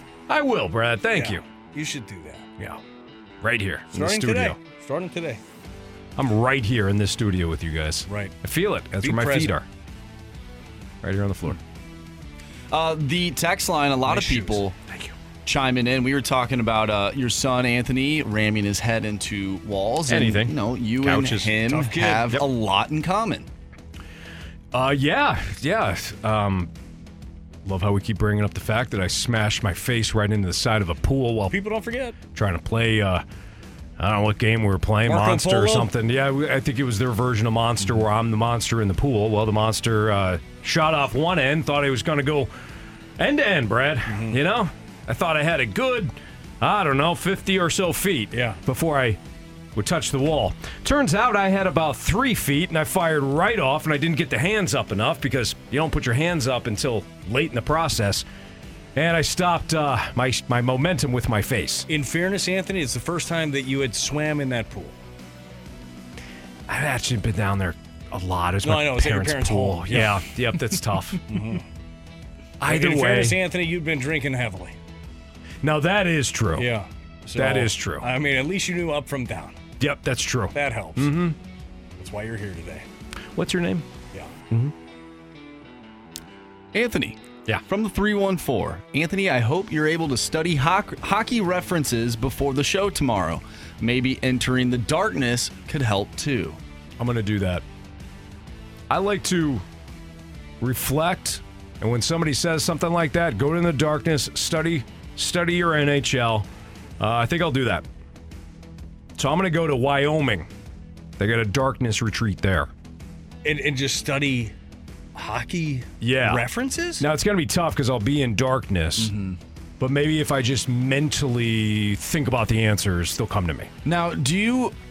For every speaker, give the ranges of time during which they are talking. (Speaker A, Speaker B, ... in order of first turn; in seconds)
Speaker A: 0.3-1.4, 3.4-4.6, 6.2-9.7, 11.0-11.6, 20.1-21.6, 24.7-26.7, 27.6-31.6, 32.3-33.2, 34.0-42.5, 43.2-49.2, 49.8-58.2, 59.0-61.9, 66.7-71.5, 72.6-73.4, 75.6-76.7, 77.4-78.1, 79.8-81.4, 83.3-83.8, 97.0-97.6, 98.9-99.7, 100.6-106.5, 107.0-107.8, 109.2-110.5, 111.2-112.7, 116.0-116.5, 117.0-119.1, 119.8-123.7
Speaker B: 1.1-2.5, 3.9-5.4, 8.1-8.4, 9.0-9.5, 14.1-14.7, 21.7-22.4, 31.5-32.2, 35.1-35.9, 44.1-44.4, 48.3-48.6, 61.9-65.0, 68.6-70.3, 71.3-71.7, 72.6-74.8, 76.5-79.6, 80.5-81.2, 82.0-82.9, 113.4-114.5, 115.2-117.1
Speaker C: 12.7-14.8, 15.4-23.5, 86.7-96.6, 119.0-119.4, 123.8-124.7